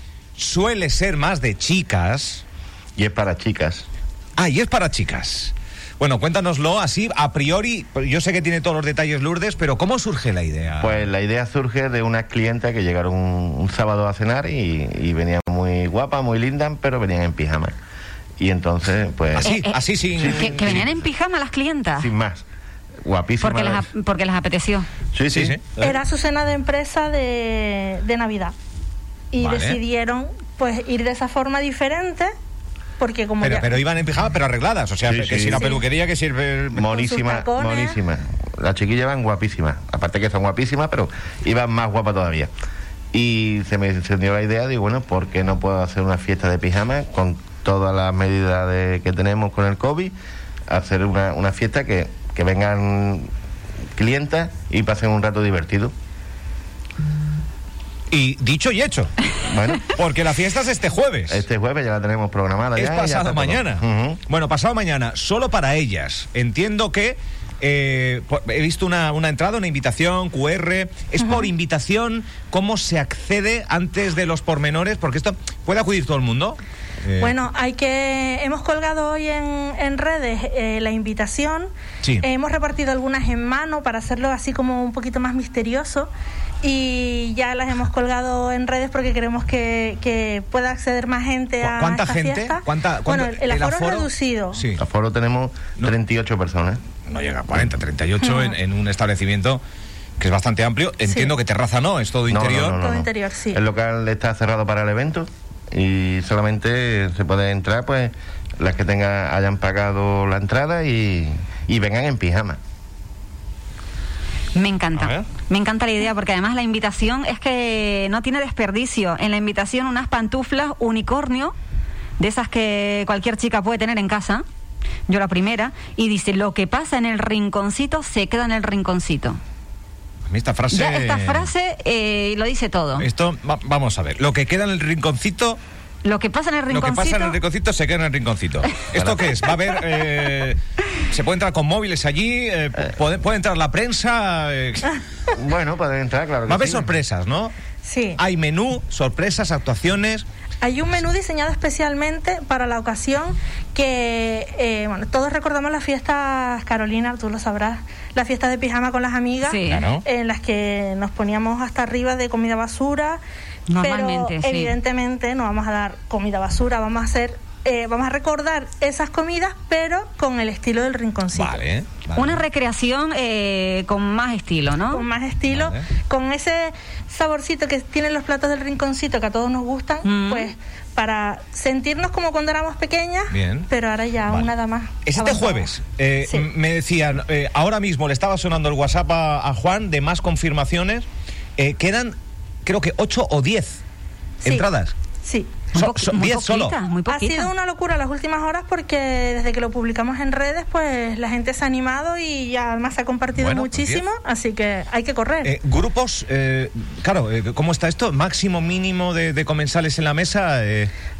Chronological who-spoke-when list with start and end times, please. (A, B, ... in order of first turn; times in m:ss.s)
0:00.4-0:02.4 A
0:03.0-0:03.9 B
0:04.4-0:11.1 A
0:10.8-0:17.7 B
0:18.4-0:19.6 B
0:19.4-0:21.0 A
0:19.4-0:22.1 C
0:20.1-0:20.8 B
0:22.0-0:22.4 B
0:23.0-0:23.8 B
0:23.4-0:24.9 C
0:25.1-0:25.6 B
0:25.3-0:25.8 A
0:25.8-0:28.5 D
0:29.3-0:32.3 D
0:29.4-0:29.8 A
0:33.0-0:33.8 D
0:33.4-0:36.9 A
0:35.0-0:35.7 B
0:35.6-0:35.8 D
0:36.7-0:42.5 B
0:36.9-0:38.0 D
0:43.1-0:50.1 B
0:50.7-0:53.3 B
0:54.0-0:55.9 B
0:58.1-0:59.3 A
0:59.4-0:59.9 B
0:59.8-1:01.4 A
1:01.3-1:04.2 B
1:02.8-1:17.3 A
1:11.2-1:11.5 D
1:17.2-1:21.7 D
1:22.2-1:26.1 D
1:26.6-1:34.6 D
1:31.6-1:34.8 A
1:34.8-1:36.8 B
1:37.0-1:39.6 A
1:40.2-1:42.8 A
1:41.1-1:41.3 D
1:42.3-1:52.6 B
1:42.7-1:43.6 D
1:54.5-2:01.5 C
1:55.0-1:55.2 A
2:02.2-2:04.4 C
2:05.1-2:09.4 C
2:10.3-2:11.5 A
2:10.7-2:13.1 C
2:13.0-2:15.6 A
2:16.0-2:17.4 C
2:16.7-2:25.0 A
2:25.4-2:26.9 B
2:26.5-2:27.5 A
2:27.8-2:28.2 D
2:28.2-2:30.2 A
2:30.6-2:43.2 D
2:39.5-2:39.8 C
2:39.6-2:40.0 A
2:43.7-2:44.7 C
2:43.8-2:51.6 D
2:51.3-2:52.4 A
2:52.2-2:55.0 C
2:54.9-3:05.7 D
2:55.5-2:55.9 A
3:00.0-3:00.5 C
3:03.3-3:03.7 A
3:05.0-3:11.0 A
3:11.6-3:13.8 A
3:14.4-3:14.7 D
3:14.4-3:14.9 A
3:15.2-3:15.6 D
3:15.7-3:16.7 A
3:15.8-3:17.5 C
3:17.1-3:25.5 D
3:23.3-3:24.0 A
3:25.4-3:30.9 A